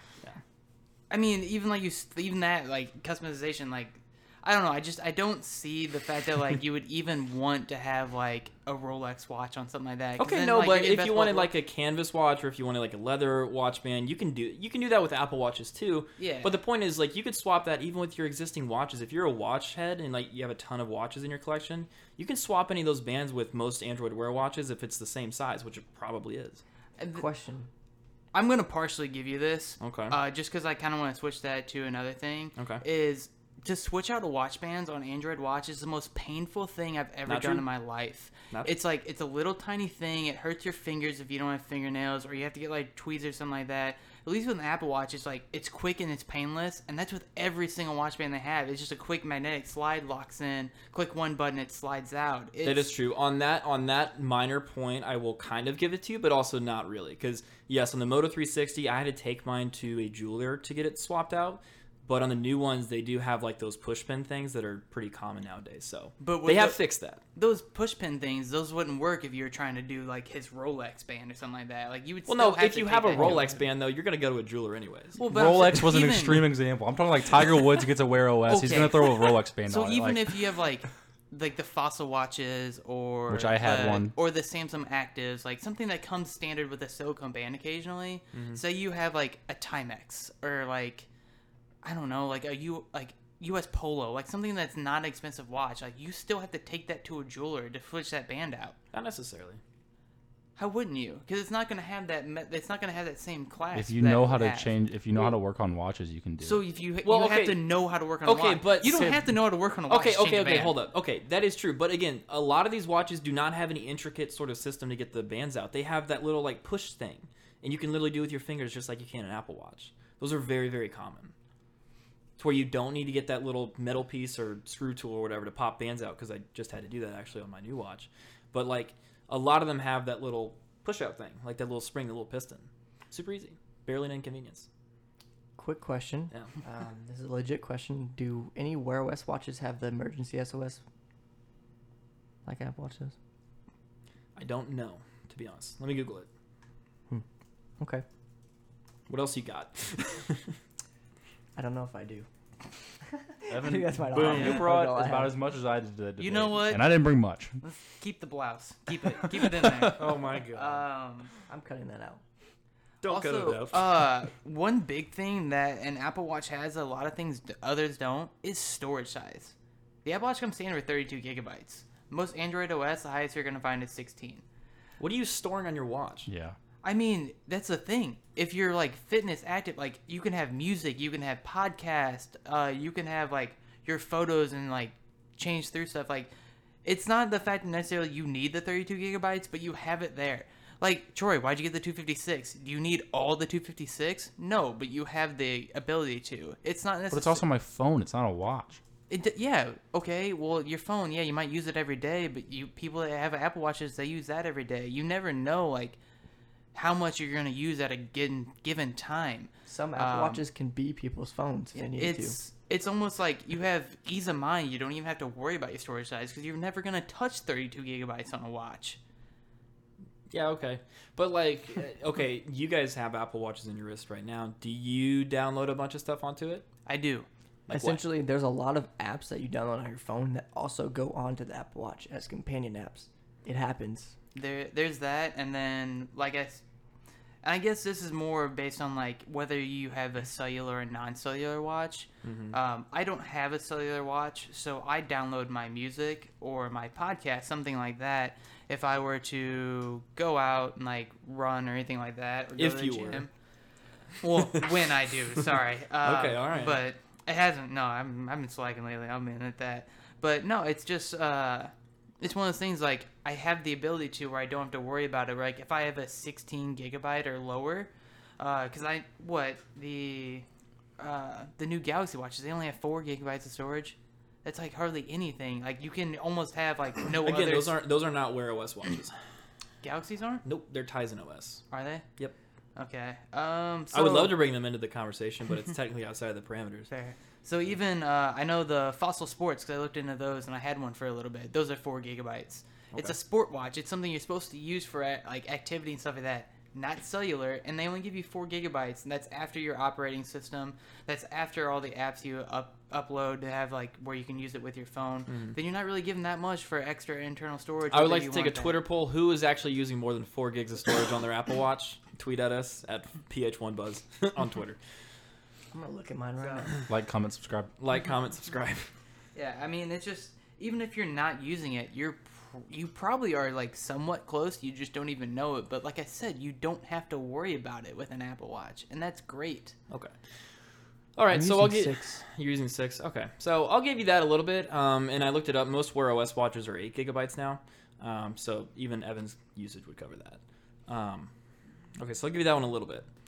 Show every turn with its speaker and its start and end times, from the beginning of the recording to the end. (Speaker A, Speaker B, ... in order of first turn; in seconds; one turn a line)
Speaker A: 1.1-11.5
Speaker B: 10.2-26.6
Speaker A: 16.2-16.5
Speaker A: 27.0-27.2
Speaker C: 27.1-27.7
Speaker A: 28.3-52.9
Speaker B: 29.8-30.1
Speaker B: 32.6-32.8
Speaker B: 37.3-37.6
Speaker B: 52.6-67.2
Speaker A: 66.2-66.8
Speaker A: 67.3-73.5
Speaker B: 72.3-75.2
Speaker D: 73.2-73.5
Speaker A: 75.2-76.5
Speaker D: 75.3-80.4
Speaker A: 78.5-91.1
Speaker D: 83.3-84.1
Speaker B: 88.3-88.6
Speaker A: 91.8-98.8
Speaker B: 98.9-99.6
Speaker A: 100.6-105.3
Speaker D: 103.7-106.6
Speaker A: 106.4-110.8
Speaker B: 107.0-107.6
Speaker B: 108.2-109.2
Speaker B: 109.9-121.3
Speaker B: 122.4-134.7
Speaker C: 135.6-140.8
Speaker C: 142.4-143.1
Speaker B: 144.3-146.3
Speaker C: 147.8-148.0
Speaker B: 149.1-150.6
Speaker C: 151.6-152.3
Speaker C: 153.2-155.4
Speaker D: 153.5-157.6
Speaker A: 154.2-154.7
Speaker A: 156.2-156.8
Speaker A: 157.6-161.3
Speaker D: 159.2-160.6
Speaker B: 159.9-160.8
Speaker C: 161.5-162.2
Speaker B: 163.0-163.9
Speaker A: 163.0-174.4
Speaker B: 175.0-176.3
Speaker D: 176.3-176.6
Speaker A: 176.8-186.3
Speaker A: 186.8-197.4
Speaker D: 197.1-198.8
Speaker A: 199.1-206.0
Speaker A: 206.7-210.4
Speaker C: 209.7-212.4
Speaker A: 212.0-219.0
Speaker B: 220.3-226.7
Speaker A: 226.8-227.2
Speaker B: 227.7-228.0
Speaker C: 227.7-234.1
Speaker A: 234.3-236.6
Speaker A: 237.4-253.3
Speaker B: 242.2-242.6
Speaker B: 252.6-253.2
Speaker A: 254.2-270.4
Speaker B: 254.4-254.7
Speaker B: 256.0-256.8
Speaker A: 271.0-277.7
Speaker B: 277.2-279.2
Speaker A: 279.8-280.4
Speaker B: 280.4-281.6
Speaker A: 281.7-282.1
Speaker A: 282.8-284.3
Speaker B: 283.9-286.9
Speaker A: 286.9-308.8
Speaker B: 305.3-305.6
Speaker B: 307.9-314.8
Speaker C: 315.7-316.7
Speaker A: 316.4-316.7
Speaker D: 316.9-317.7
Speaker B: 317.8-318.9
Speaker A: 319.3-329.8
Speaker B: 331.1-341.3
Speaker C: 331.3-332.2
Speaker B: 342.0-343.1